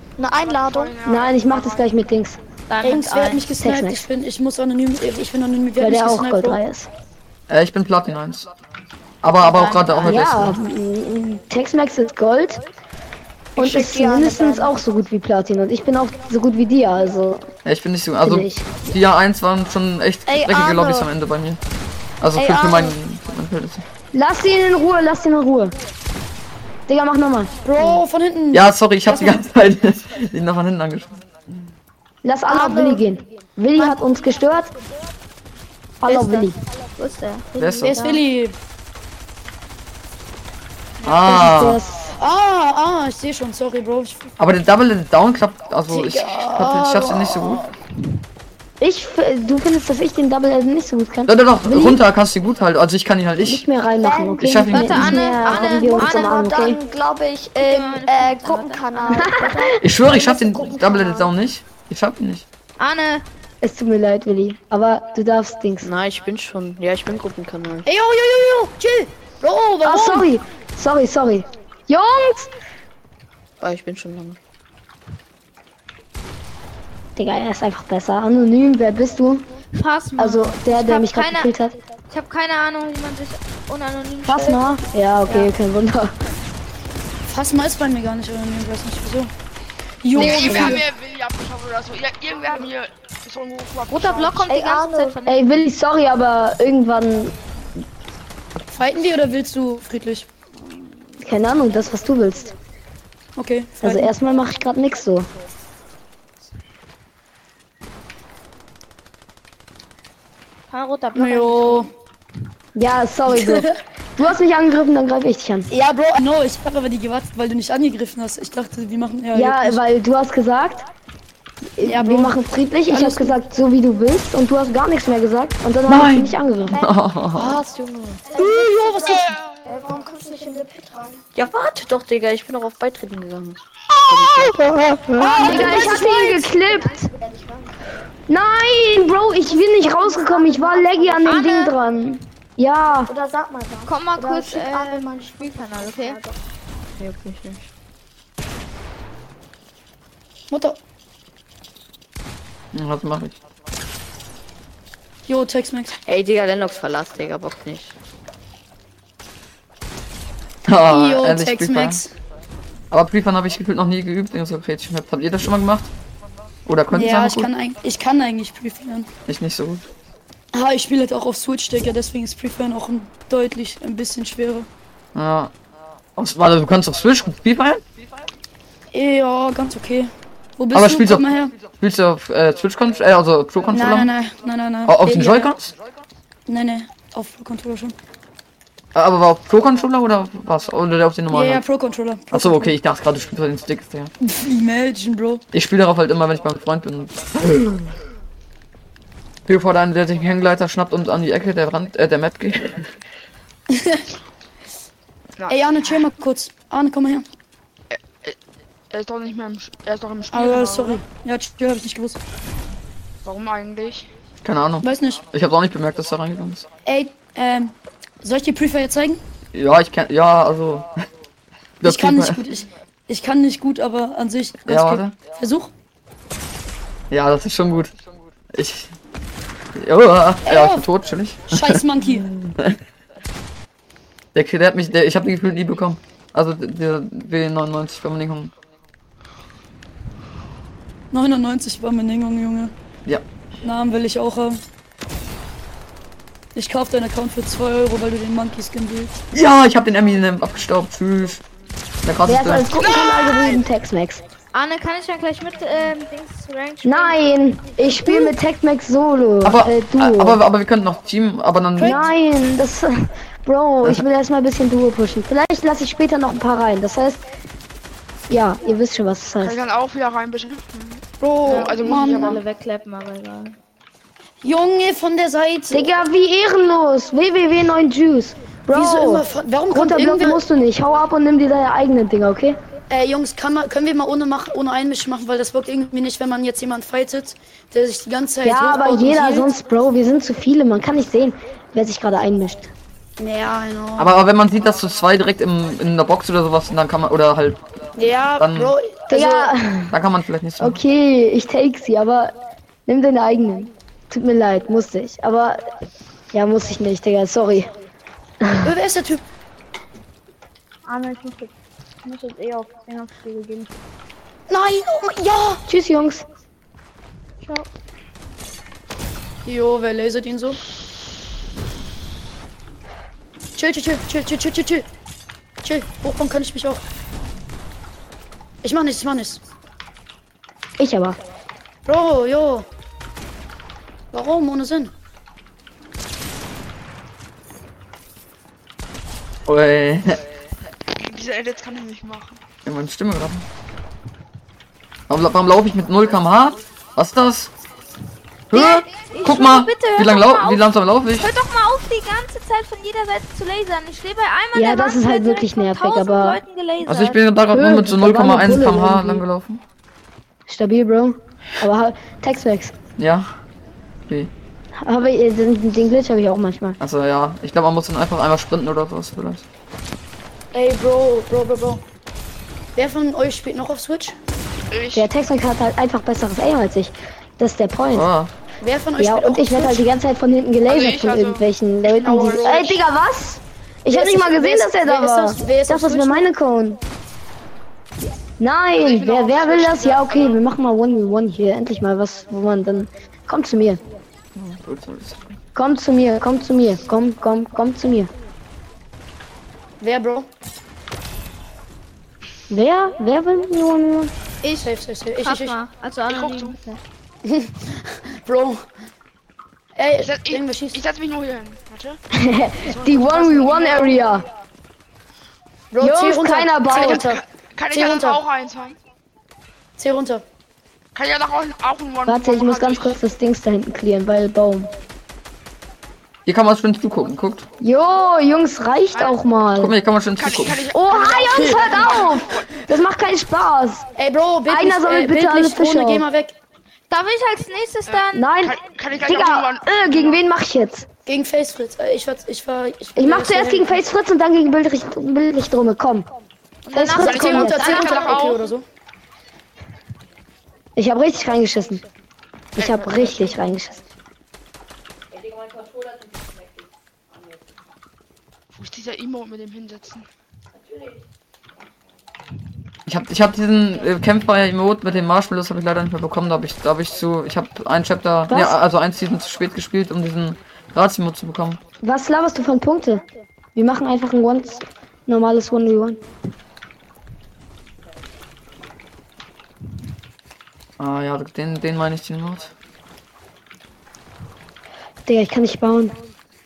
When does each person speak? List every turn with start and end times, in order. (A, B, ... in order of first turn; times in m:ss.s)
0:00.2-0:01.0 A
0:00.4-0:01.9 B
0:01.0-0:02.4 C
0:02.7-0:03.5 D
0:02.8-0:06.6 E
0:03.6-0:04.0 C
0:05.8-0:06.9 C
0:07.5-0:08.5 F
0:09.2-0:10.6 F
0:09.6-0:10.0 D
0:10.0-0:12.6 C
0:13.6-0:14.8 A
0:13.6-0:17.5 C
0:17.6-0:21.6 F
0:18.2-0:18.8 C
0:20.3-0:21.1 A
0:22.2-0:23.8 F
0:22.4-0:23.0 A
0:24.1-0:25.8 C
0:26.9-0:28.0 C
0:27.6-0:29.4 E
0:28.5-0:31.2 F
0:32.2-0:34.7 C
0:32.5-0:33.0 A
0:36.0-0:36.6 C
0:36.1-0:36.4 D
0:37.0-0:38.2 D
0:37.6-0:38.0 F
0:37.8-0:38.6 E
0:41.0-0:41.8 F
0:41.1-0:42.1 C
0:42.2-0:44.3 E
0:44.4-0:47.7 F
0:45.9-0:47.7 E
0:48.8-0:52.0 C
0:51.3-0:53.6 F
0:53.4-0:56.8 C
0:54.0-1:01.3 A
0:54.4-0:55.3 F
0:54.7-0:56.5 D
0:57.6-0:59.4 D
0:59.1-0:59.8 C
0:59.8-1:02.4 F
1:02.8-1:03.2 D
1:03.6-1:05.9 C
1:05.8-1:07.9 G
1:07.9-1:10.3 E
1:09.8-1:12.5 C
1:13.6-1:14.4 G
1:17.2-1:19.4 C
1:19.8-1:21.5 D
1:20.2-1:21.8 C
1:22.1-1:24.7 D
1:24.2-1:26.2 C
1:27.3-1:29.3 E
1:30.0-1:30.9 E
1:30.2-1:34.5 B
1:30.3-1:30.6 D
1:33.9-1:35.6 D
1:34.5-1:35.2 A
1:35.2-1:37.4 C
1:38.7-1:40.3 E
1:41.2-1:42.5 C
1:43.4-1:44.1 E
1:43.8-1:45.3 C
1:50.7-1:51.9 D
1:51.2-1:51.9 E
1:52.8-1:55.7 C
1:53.3-1:53.8 E
1:55.7-1:59.8 E
1:59.3-2:00.9 C
2:01.8-2:06.8 C
2:01.8-2:02.4 E
2:02.9-2:03.4 E
2:05.9-2:07.6 F
2:07.4-2:07.6 E
2:07.6-2:08.2 G
2:08.3-2:11.2 A
2:08.4-2:09.3 E
2:09.3-2:09.7 B
2:11.4-2:14.8 G
2:15.2-2:17.7 A
2:15.2-2:15.8 E
2:15.2-2:15.7 D
2:15.2-2:17.1 C
2:18.3-2:23.1 C
2:19.5-2:21.3 A
2:21.2-2:21.7 D
2:23.1-2:26.4 A
2:23.9-2:26.2 D
2:27.0-2:27.7 G
2:30.5-2:30.8 E
2:32.7-2:33.4 F
2:35.3-2:36.0 E
2:36.1-2:37.9 G
2:40.7-2:42.0 F
2:40.9-2:42.1 E
2:42.9-2:45.9 F
2:46.7-2:47.5 F
2:46.9-2:49.1 E
2:49.3-2:49.8 F
2:50.5-2:54.7 E
2:55.2-2:55.5 F
2:56.2-2:57.8 F
2:58.9-3:01.5 E
3:00.7-3:04.1 F
3:03.7-3:05.5 E
3:04.9-3:05.7 F
3:06.5-3:08.0 E
3:09.0-3:11.6 F
3:11.3-3:12.8 E
3:12.3-3:14.1 F
3:14.2-3:15.4 E
3:15.5-3:17.9 F
3:19.5-3:22.9 F
3:23.7-3:24.1 E
3:25.4-3:26.0 B
3:25.5-3:27.2 E
3:27.9-3:28.4 B
3:28.9-3:31.0 B
3:30.3-3:32.2 E
3:33.2-3:34.1 B
3:34.4-3:36.7 F
3:34.8-3:35.2 E
3:36.8-3:39.2 E
3:39.5-3:40.9 F
3:41.8-3:42.4 F
3:41.8-3:45.7 E
3:44.7-3:45.2 F
3:47.1-3:47.9 F
3:48.5-3:48.9 F
3:49.8-3:52.8 F
3:50.5-3:50.9 E
3:51.5-3:52.3 E
3:54.3-3:58.5 F
4:01.1-4:02.7 E
4:03.6-4:04.6 E
4:06.6-4:09.2 E
4:09.3-4:11.4 F
4:12.0-4:12.7 F
4:12.3-4:14.2 C
4:12.9-4:13.1 B
4:14.5-4:17.2 D
4:16.8-4:20.4 C
4:19.4-4:22.0 F
4:21.8-4:22.1 E
4:21.8-4:27.2 C
4:28.3-4:29.6 C
4:29.4-4:32.4 B
4:31.2-4:32.4 E
4:31.5-4:33.6 D
4:34.4-4:35.9 E
4:35.7-4:42.6 C
4:38.7-4:40.4 E
4:42.9-4:49.5 E
4:48.4-4:52.7 C
4:53.2-4:54.2 E
4:54.0-4:57.6 F
4:58.0-4:59.5 E
4:58.4-4:58.8 F
4:59.1-5:00.0 C
4:59.9-5:00.8 F
5:00.6-5:02.4 C
5:02.9-5:05.6 C
5:06.3-5:07.7 C
5:08.4-5:08.7 C
5:08.6-5:09.2 E
5:10.9-5:11.5 H
5:12.0-5:13.7 H
5:14.5-5:15.6 E
5:15.7-5:16.2 C
5:19.4-5:20.6 E
5:23.6-5:24.9 E
5:25.6-5:26.8 E
5:28.6-5:29.4 E
5:30.8-5:31.2 C
5:31.9-5:32.7 E
5:34.1-5:34.9 E
5:39.5-5:40.2 F
5:41.0-5:42.4 B
5:42.6-5:43.5 F
5:45.1-5:47.5 F
5:48.5-5:51.3 F
5:48.5-5:57.2 D
5:54.5-5:56.4 C
5:56.8-5:59.6 F
5:57.5-5:59.2 C
6:00.5-6:02.8 C
6:03.0-6:03.3 F
6:04.8-6:06.8 C
6:06.8-6:09.4 F
6:10.5-6:11.8 E
6:12.8-6:14.2 E
6:14.7-6:15.1 B
6:14.9-6:18.1 C
6:17.9-6:18.3 F
6:18.6-6:19.9 E
6:19.0-6:26.8 C
6:20.6-6:22.8 B
6:22.1-6:22.8 E
6:23.9-6:26.3 E
6:28.4-6:33.8 C
6:28.7-6:30.4 B
6:34.4-6:35.3 F
6:35.6-6:38.1 C
6:39.8-6:40.3 E
6:42.5-6:44.1 C
6:44.4-6:46.8 D
6:44.6-6:45.6 E
6:46.1-6:46.6 B
6:47.2-6:48.6 E
6:49.8-6:50.8 E
6:50.0-6:52.0 B
6:52.1-6:54.3 C
6:52.7-6:53.2 B
6:53.0-6:54.0 E
6:55.7-6:58.2 E
6:55.8-6:57.1 C
6:56.7-6:58.8 B
6:59.8-7:00.2 E
7:01.0-7:03.0 B
7:02.0-7:04.7 C
7:06.3-7:07.5 F
7:07.6-7:09.7 C
7:09.6-7:10.7 F
7:10.2-7:12.5 B
7:10.7-7:13.9 C
7:11.3-7:11.7 E
7:14.0-7:16.3 E
7:14.5-7:16.0 C
7:16.9-7:18.3 D
7:17.9-7:20.2 B
7:18.1-7:20.9 C
7:21.1-7:23.8 E
7:23.0-7:26.1 C
7:26.7-7:28.2 D
7:26.7-7:27.8 C
7:27.0-7:28.5 B
7:27.0-7:28.6 E
7:30.8-7:31.8 C
7:32.6-7:33.8 C
7:32.6-7:33.4 B
7:38.5-7:40.1 B
7:42.9-7:51.6 F
7:48.3-7:48.6 C
7:51.8-7:53.0 C
7:53.6-7:56.0 C
8:00.8-8:02.5 F
8:05.1-8:06.0 C